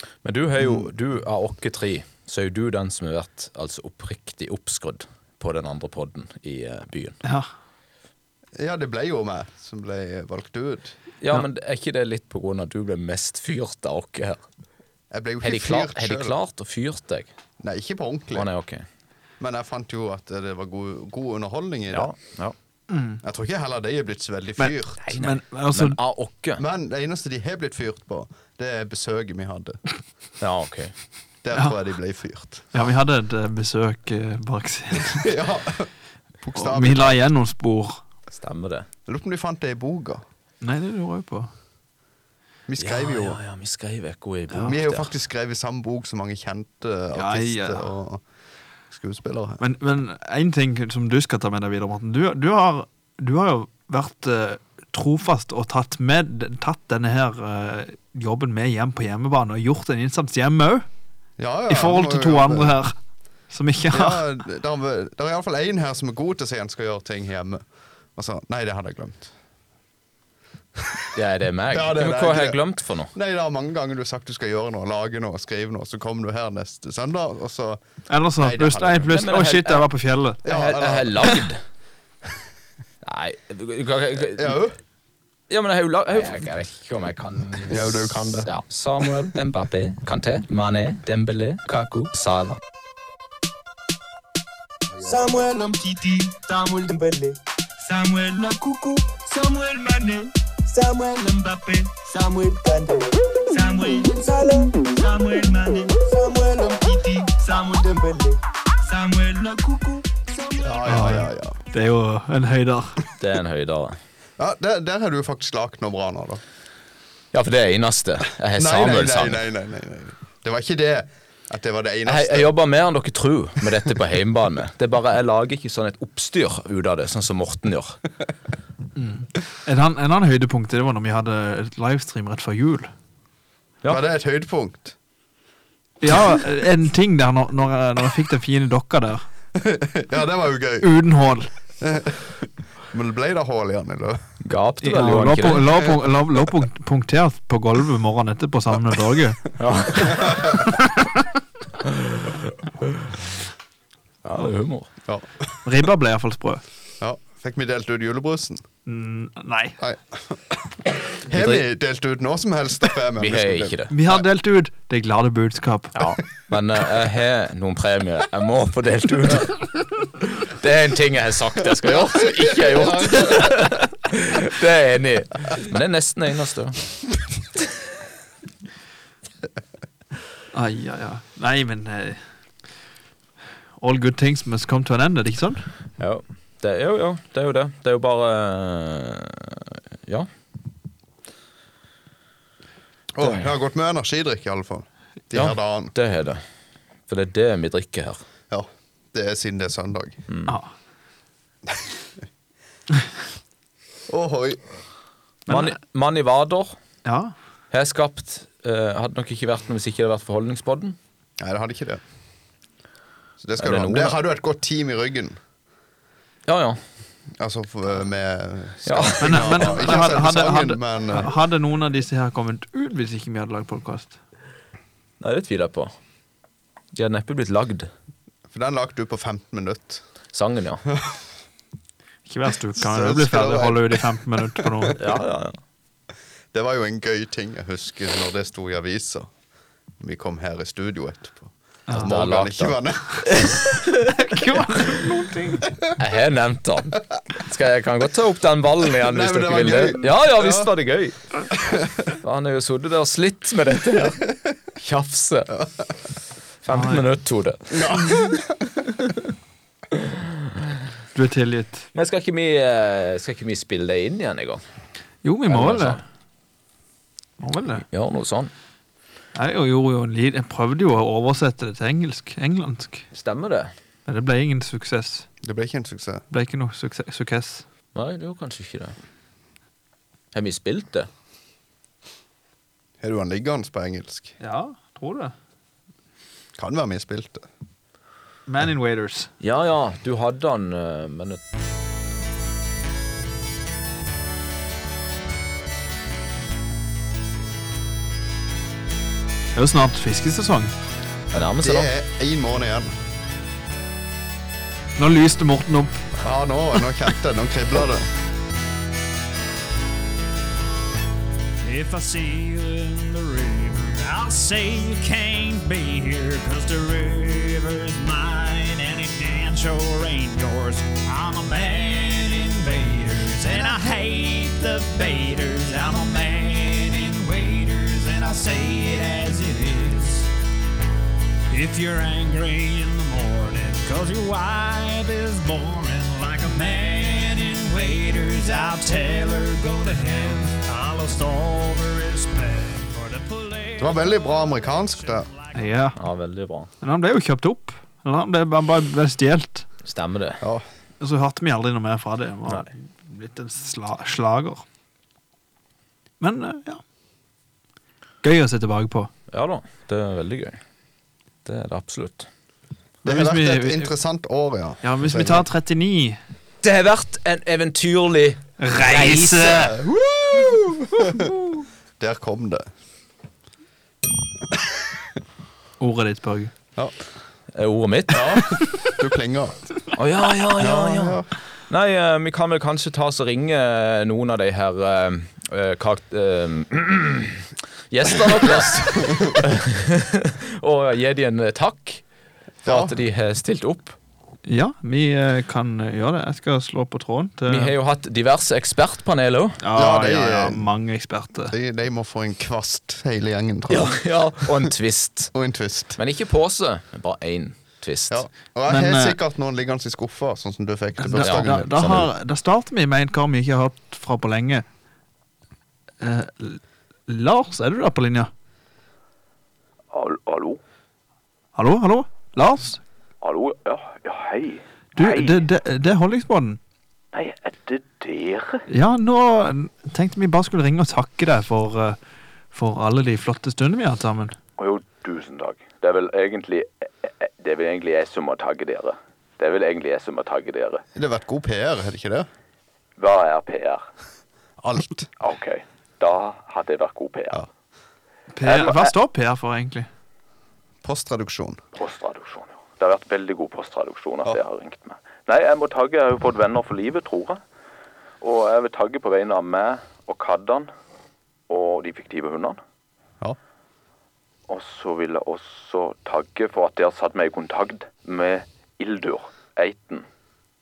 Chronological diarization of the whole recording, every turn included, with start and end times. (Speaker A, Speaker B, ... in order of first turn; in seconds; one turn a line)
Speaker A: 0.2-7.2
Speaker B: 0.6-0.9
Speaker B: 8.6-10.9
Speaker A: 11.2-14.4
Speaker B: 15.1-16.3
Speaker A: 15.4-17.3
Speaker B: 17.6-18.5
Speaker A: 18.3-18.8
Speaker B: 19.4-22.1
Speaker A: 21.9-22.5
Speaker C: 22.9-23.2
Speaker B: 23.2-25.0
Speaker C: 24.6-26.0
Speaker A: 25.0-26.6
Speaker B: 26.6-29.8
Speaker A: 30.4-30.9
Speaker B: 31.4-32.7
Speaker C: 32.7-35.3
Speaker B: 35.2-35.9
Speaker B: 36.4-37.2
Speaker C: 36.5-38.0
Speaker A: 38.3-38.9
Speaker B: 39.1-40.2
Speaker C: 40.6-41.5
Speaker B: 42.7-43.4
Speaker A: 42.8-45.1
Speaker B: 44.5-48.2
Speaker C: 47.1-47.9
Speaker B: 48.9-49.6
Speaker C: 49.6-60.9
Speaker B: 61.4-62.8
Speaker C: 61.7-62.9
Speaker C: 63.5-64.2
Speaker B: 63.9-67.6
Speaker B: 68.2-69.3
Speaker A: 71.1-73.1
Speaker B: 71.7-72.6
Speaker B: 73.1-77.8
Speaker C: 78.1-80.4
Speaker B: 78.3-79.1
Speaker A: 79.1-79.9
Speaker B: 80.4-81.3
Speaker A: 80.4-81.6
Speaker A: 83.0-84.6
Speaker B: 84.3-84.7
Speaker A: 85.5-92.6
Speaker B: 87.7-88.5
Speaker D: 95.0-110.8
Speaker B: 110.6-111.6
Speaker C: 110.8-113.0
Speaker A: 113.2-114.0
Speaker B: 114.4-116.4
Speaker A: 117.3-119.4
Speaker B: 118.5-122.5
Speaker A: 122.0-128.0
Speaker C: 128.9-132.9
Speaker B: 133.9-134.9
Speaker C: 136.0-139.2
Speaker B: 139.6-140.9
Speaker C: 140.8-141.5
Speaker B: 141.8-144.2
Speaker A: 144.4-145.9
Speaker C: 144.8-149.4
Speaker A: 149.6-150.6
Speaker C: 150.6-151.1
Speaker A: 151.8-153.1
Speaker A: 154.2-154.9
Speaker B: 155.1-155.3
Speaker C: 155.6-156.6
Speaker B: 157.0-158.6
Speaker C: 158.8-159.8
Speaker B: 159.8-160.5
Speaker B: 161.2-163.8
Speaker A: 161.3-161.6
Speaker A: 163.2-163.9
Speaker C: 163.9-165.9
Speaker A: 165.9-169.7
Speaker A: 170.3-176.8
Speaker B: 172.3-173.6
Speaker C: 180.5-182.2
Speaker C: 183.8-185.6
Speaker A: 186.0-190.3
Speaker B: 193.1-195.9
Speaker A: 195.3-196.4
Speaker A: 197.1-198.2
Speaker B: 198.5-200.2
Speaker A: 200.3-200.5
Speaker B: 204.1-204.6
Speaker C: 205.5-205.8
Speaker A: 205.5-206.7
Speaker C: 207.0-207.3
Speaker A: 207.7-211.0
Speaker B: 211.4-212.0
Speaker B: 213.4-215.4
Speaker A: 213.6-214.2
Speaker A: 216.5-216.8
Speaker B: 217.4-221.3
Speaker A: 218.8-219.9
Speaker C: 219.2-224.2
Speaker A: 225.2-225.9
Speaker A: 226.9-227.9
Speaker B: 228.5-230.0
Speaker A: 230.3-230.8
Speaker C: 232.2-235.0
Speaker B: 232.8-234.9
Speaker A: 235.0-235.6
Speaker B: 236.5-239.3
Speaker B: 240.0-243.5
Speaker C: 241.9-242.1
Speaker A: 242.0-242.8
Speaker A: 243.4-243.7
Speaker C: 244.1-245.7
Speaker A: 246.0-251.2
Speaker B: 249.0-250.7
Speaker A: 252.2-255.5
Speaker A: 256.6-258.2
Speaker C: 256.7-257.0
Speaker B: 257.7-258.3
Speaker C: 261.1-261.9
Speaker A: 261.9-264.6
Speaker C: 265.2-266.0
Speaker A: 265.5-266.0
Speaker C: 267.4-267.8
Speaker A: 267.9-268.5
Speaker C: 269.3-273.1
Speaker A: 273.1-273.7
Speaker C: 274.1-275.3
Speaker B: 275.4-276.2
Speaker C: 276.3-277.6
Speaker A: 277.9-278.9
Speaker A: 280.3-281.1
Speaker B: 283.0-284.3
Speaker C: 284.4-285.3
Speaker B: 286.6-287.5
Speaker C: 288.5-289.3
Speaker A: 289.4-291.4
Speaker C: 299.5-300.7
Speaker A: 301.3-301.9
Speaker B: 301.3-302.9
Speaker C: 305.0-306.0
Speaker B: 306.2-308.1
Speaker E: 311.6-330.3
Speaker E: 331.5-345.6
Speaker B: 343.8-345.3
Speaker C: 345.5-345.9
Speaker A: 345.9-346.7
Speaker C: 346.8-349.6
Speaker A: 349.8-350.4
Speaker B: 350.4-350.6
Speaker C: 351.0-354.6
Speaker C: 356.2-356.8
Speaker C: 358.2-359.1
Speaker A: 359.3-360.6
Speaker A: 361.4-362.3
Speaker B: 363.0-365.5
Speaker C: 363.0-363.9
Speaker C: 364.8-366.2
Speaker A: 366.6-369.7
Speaker C: 368.6-369.8
Speaker B: 369.6-371.3
Speaker C: 371.0-371.4
Speaker B: 372.0-372.7
Speaker C: 375.8-376.5
Speaker A: 377.5-378.6
Speaker B: 378.1-379.9
Speaker A: 379.9-392.0
Speaker B: 380.5-381.3
Speaker B: 388.4-389.4
Speaker B: 392.6-392.9
Speaker A: 392.6-393.9
Speaker C: 394.4-397.7
Speaker A: 397.5-399.6
Speaker C: 399.6-401.5
Speaker B: 399.7-400.7
Speaker B: 401.5-404.7
Speaker A: 403.7-405.3
Speaker B: 405.3-406.0
Speaker A: 405.9-408.2
Speaker B: 408.1-412.0
Speaker C: 408.7-409.2
Speaker C: 411.0-414.6
Speaker A: 411.2-412.1
Speaker C: 416.0-418.3
Speaker F: 419.9-420.6
Speaker C: 421.5-422.8
Speaker F: 423.2-425.4
Speaker C: 424.9-426.6
Speaker F: 427.1-428.6
Speaker C: 428.7-432.0
Speaker C: 432.5-434.4
Speaker F: 434.6-435.3
Speaker A: 435.8-436.6
Speaker A: 437.4-438.0
Speaker B: 440.9-442.3
Speaker B: 444.6-445.1
Speaker C: 448.3-449.9
Speaker F: 448.4-448.7
Speaker B: 450.8-451.6
Speaker A: 453.1-457.3
Speaker A: 458.2-460.7
Speaker A: 461.5-462.6
Speaker A: 465.4-470.0